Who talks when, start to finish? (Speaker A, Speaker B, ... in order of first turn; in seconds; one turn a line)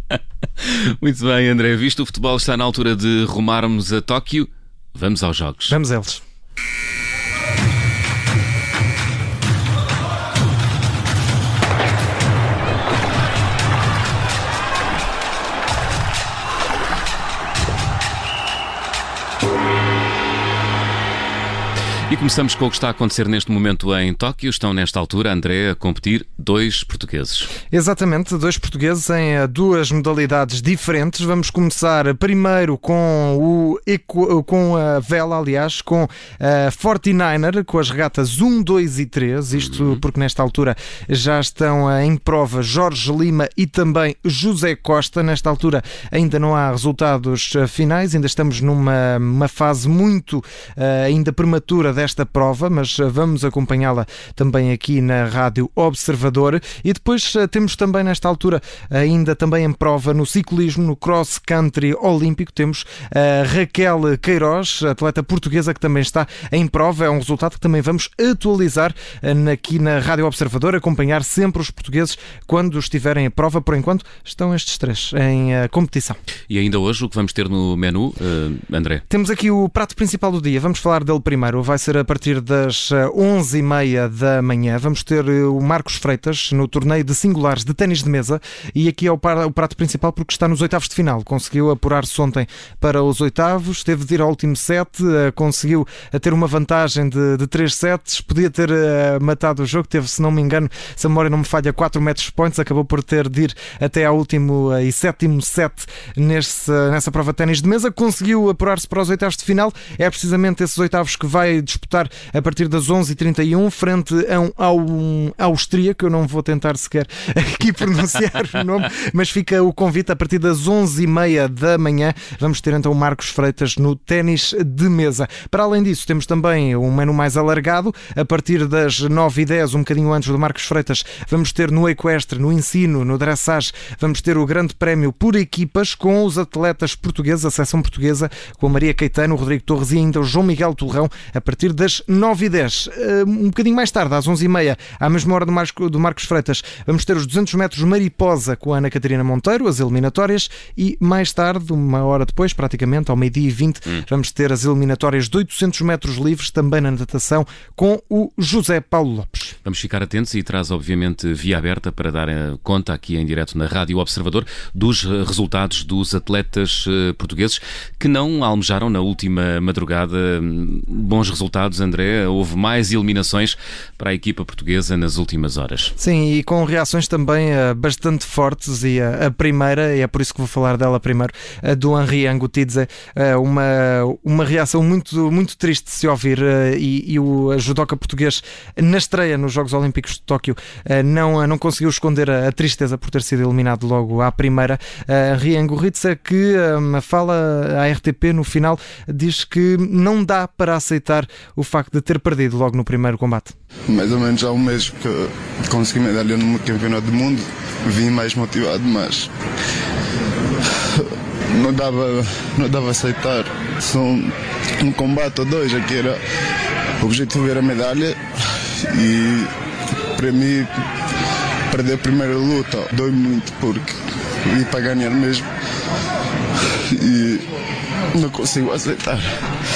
Speaker A: 0.6-5.8
Speaker B: 5.7-6.2
Speaker A: 22.1-27.5
Speaker B: 27.7-76.2
Speaker A: 76.5-79.0
Speaker B: 79.1-159.6
Speaker A: 159.7-175.9
Speaker B: 176.0-203.5
Speaker C: 203.9-209.3
Speaker C: 210.9-216.2
Speaker C: 217.0-219.5
Speaker C: 220.2-220.7
Speaker C: 221.7-225.5
Speaker C: 226.9-227.4
Speaker C: 228.1-229.3